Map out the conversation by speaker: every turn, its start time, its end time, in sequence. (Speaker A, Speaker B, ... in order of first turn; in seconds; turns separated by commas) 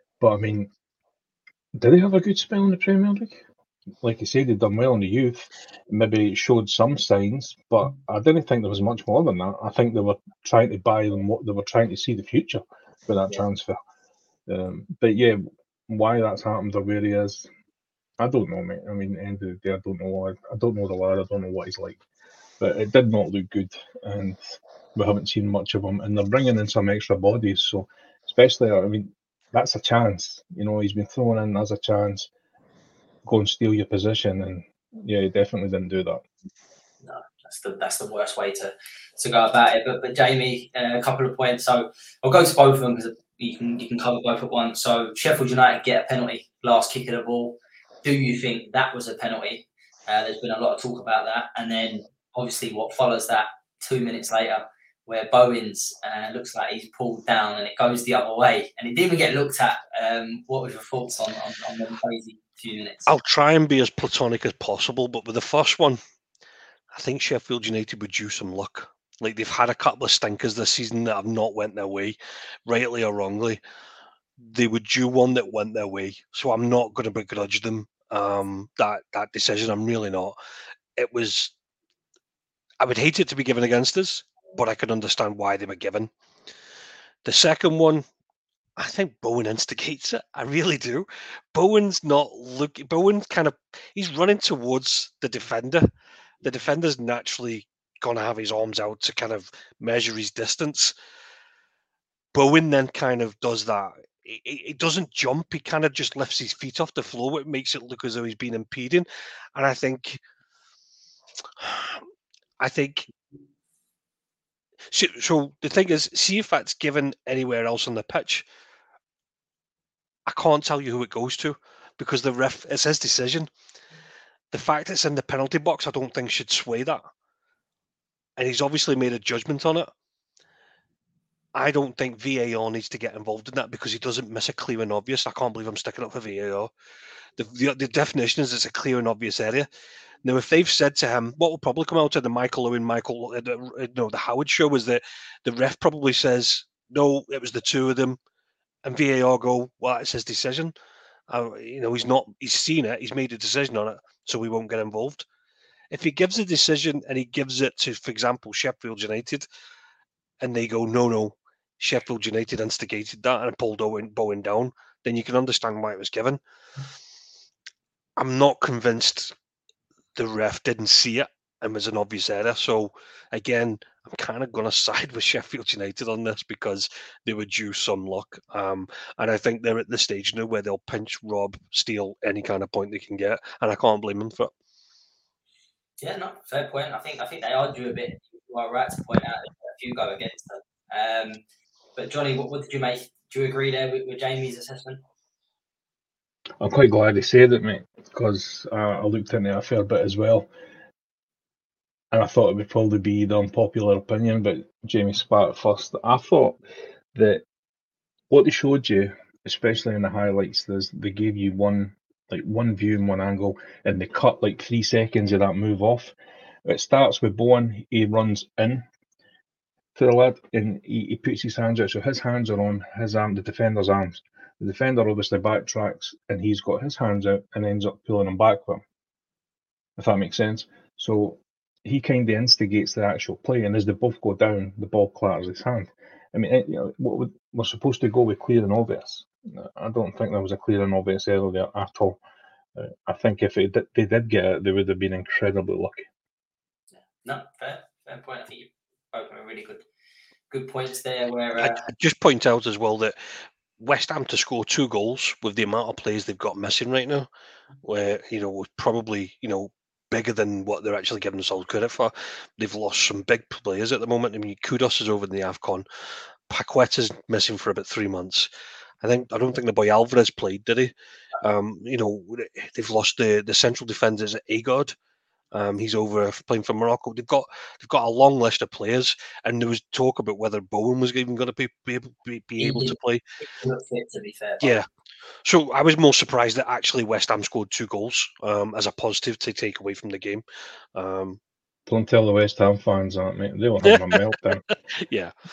Speaker A: 0.2-0.7, Speaker A: 1.8-3.4, Speaker A: 4.0-13.8, Speaker A: 14.5-17.5, Speaker A: 18.2-22.0, Speaker A: 22.6-32.3, Speaker A: 33.2-36.2, Speaker B: 37.0-63.1, Speaker C: 63.1-66.0, Speaker C: 66.9-73.6, Speaker C: 74.4-80.3, Speaker C: 81.0-81.5, Speaker C: 82.8-86.1, Speaker C: 87.2-88.0, Speaker C: 88.8-95.9, Speaker C: 96.4-100.9, Speaker C: 102.3-110.2, Speaker C: 111.6-112.0, Speaker C: 112.6-113.1, Speaker C: 114.9-118.5, Speaker C: 120.3-123.5, Speaker C: 124.5-127.0, Speaker C: 128.4-129.9, Speaker C: 131.5-136.7, Speaker C: 137.4-139.7, Speaker C: 140.2-148.2, Speaker C: 148.8-150.7, Speaker C: 151.3-155.2, Speaker C: 155.9-159.4, Speaker C: 160.4-166.4, Speaker C: 168.2-169.3, Speaker C: 170.2-184.5, Speaker B: 186.0-191.4, Speaker B: 191.9-195.0, Speaker A: 196.6-200.5, Speaker A: 202.1-206.6, Speaker A: 207.1-207.4, Speaker A: 208.3-218.8, Speaker A: 219.9-228.8, Speaker A: 230.0-242.2, Speaker A: 242.8-246.0, Speaker B: 247.0-249.8, Speaker B: 250.5-251.8, Speaker C: 251.6-253.2, Speaker C: 253.8-257.3, Speaker C: 257.8-265.8, Speaker C: 266.5-268.5, Speaker C: 269.0-274.9, Speaker C: 275.5-283.2, Speaker B: 282.6-284.8, Speaker C: 285.4-290.4, Speaker C: 290.9-291.4, Speaker A: 291.9-294.6, Speaker C: 293.8-295.3